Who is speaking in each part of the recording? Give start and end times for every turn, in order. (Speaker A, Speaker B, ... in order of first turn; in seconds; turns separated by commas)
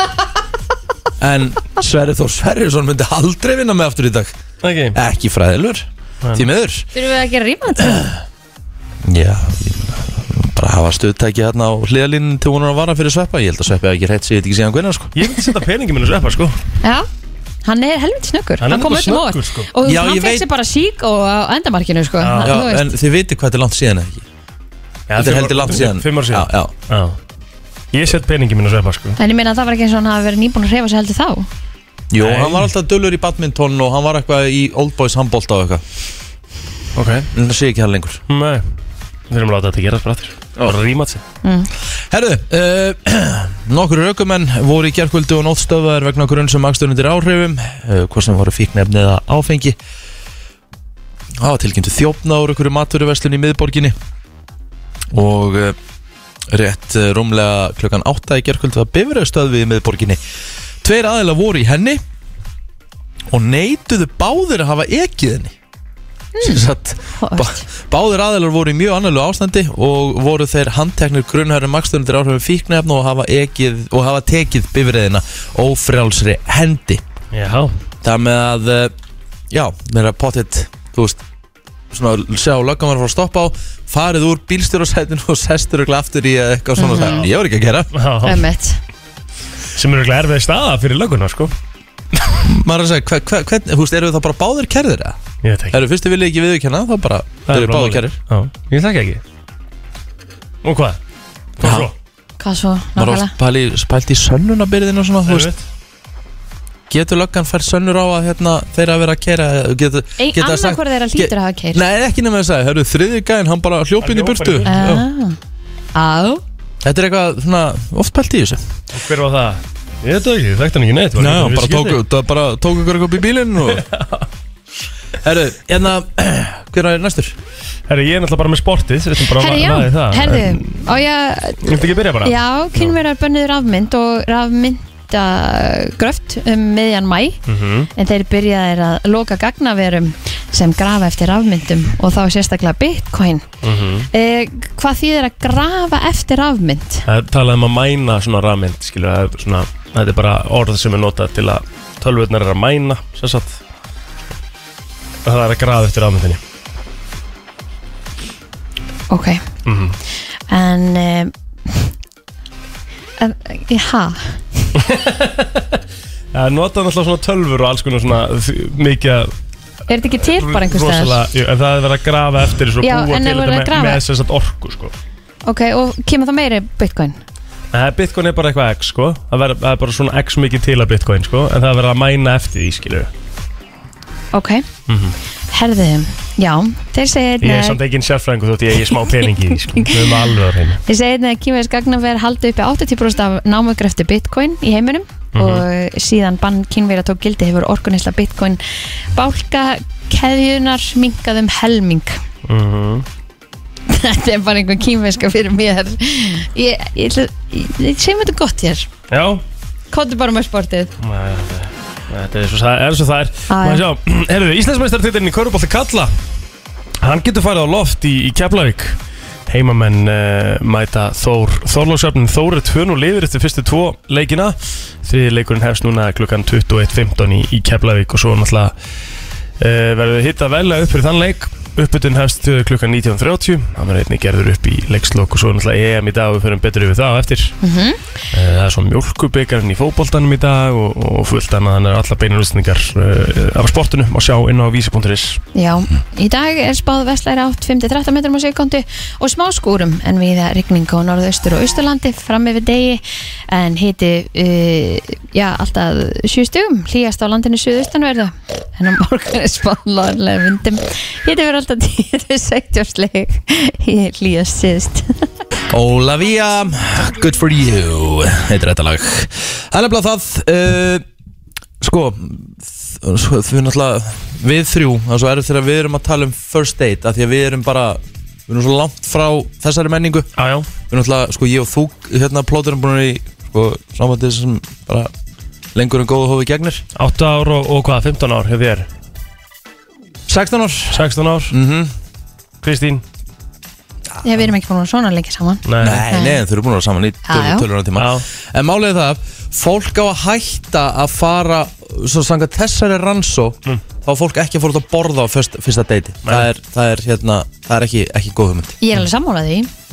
Speaker A: 1.2-4.3, Speaker B: 4.6-5.0, Speaker A: 4.9-6.9, Speaker C: 7.0-8.1, Speaker A: 9.0-15.3, Speaker B: 15.2-16.6, Speaker C: 17.6-22.9, Speaker B: 18.6-19.7, Speaker A: 19.8-20.5, Speaker B: 22.2-22.5, Speaker A: 22.4-24.2, Speaker B: 25.1-27.2, Speaker A: 25.2-26.7, Speaker B: 27.9-29.2, Speaker C: 29.2-31.5, Speaker A: 32.1-35.8, Speaker B: 32.2-32.7, Speaker B: 37.0-37.3, Speaker A: 37.3-38.2, Speaker B: 38.3-38.6, Speaker B: 39.3-41.2, Speaker C: 41.4-41.7, Speaker A: 42.1-49.8, Speaker A: 51.4-54.0, Speaker A: 55.1-55.8, Speaker A: 56.5-60.2, Speaker A: 60.8-62.0, Speaker A: 63.3-65.5, Speaker C: 66.4-67.6, Speaker A: 66.4-77.0, Speaker B: 77.3-77.7, Speaker A: 78.0-78.9, Speaker A: 79.5-81.2, Speaker A: 81.9-87.9, Speaker C: 86.8-87.2, Speaker B: 87.0-87.3, Speaker B: 87.9-88.5, Speaker C: 88.2-88.8, Speaker B: 89.8-91.5, Speaker A: 92.5-95.2, Speaker B: 95.4-95.8, Speaker A: 95.7-98.2, Speaker B: 97.5-99.2, Speaker B: 100.6-101.0, Speaker B: 101.6-101.9, Speaker A: 101.6-101.9, Speaker C: 102.4-103.3, Speaker A: 103.0-105.5, Speaker B: 105.3-105.6, Speaker A: 106.9-115.0, Speaker C: 110.2-111.8, Speaker B: 114.0-114.9, Speaker C: 114.7-115.4, Speaker C: 116.0-116.4, Speaker A: 116.8-118.6, Speaker B: 118.9-122.0, Speaker A: 121.2-123.8, Speaker B: 123.7-124.3, Speaker A: 125.2-127.4, Speaker B: 127.9-130.8, Speaker C: 129.4-137.4, Speaker B: 131.6-133.0, Speaker B: 137.5-137.9, Speaker C: 137.9-143.5, Speaker B: 143.6-144.1, Speaker C: 144.1-147.1, Speaker B: 147.1-153.6, Speaker B: 155.2-156.4, Speaker C: 159.1-159.4, Speaker B: 159.7-160.0, Speaker C: 160.5-161.9, Speaker C: 163.2-164.6, Speaker B: 164.8-165.8, Speaker B: 166.3-169.3, Speaker C: 169.9-171.2, Speaker B: 170.2-174.9, Speaker C: 172.8-174.0, Speaker C: 175.4-177.2, Speaker B: 177.7-183.1, Speaker C: 184.3-184.7, Speaker B: 184.9-185.2, Speaker C: 185.5-187.8, Speaker B: 187.4-190.8, Speaker C: 189.7-190.2, Speaker C: 190.9-198.6, Speaker B: 195.3-195.7, Speaker C: 199.1-202.2, Speaker B: 202.5-203.1, Speaker C: 203.9-208.9, Speaker B: 209.1-209.4, Speaker C: 209.9-210.9, Speaker B: 211.0-216.1, Speaker C: 213.5-213.8, Speaker B: 217.0-228.7, Speaker B: 229.6-237.6, Speaker C: 237.6-238.0, Speaker B: 238.3-245.4, Speaker C: 245.6-265.3, Speaker A: 265.7-271.1, Speaker A: 271.8-280.3, Speaker B: 280.4-280.7, Speaker A: 280.9-285.1, Speaker A: 285.8-286.8, Speaker B: 286.9-288.9, Speaker A: 290.3-291.9, Speaker B: 290.9-291.5, Speaker B: 292.6-293.0, Speaker C: 294.2-296.4, Speaker B: 295.6-296.1, Speaker A: 295.8-308.8, Speaker C: 297.3-297.7, Speaker B: 298.0-298.2, Speaker C: 308.8-309.7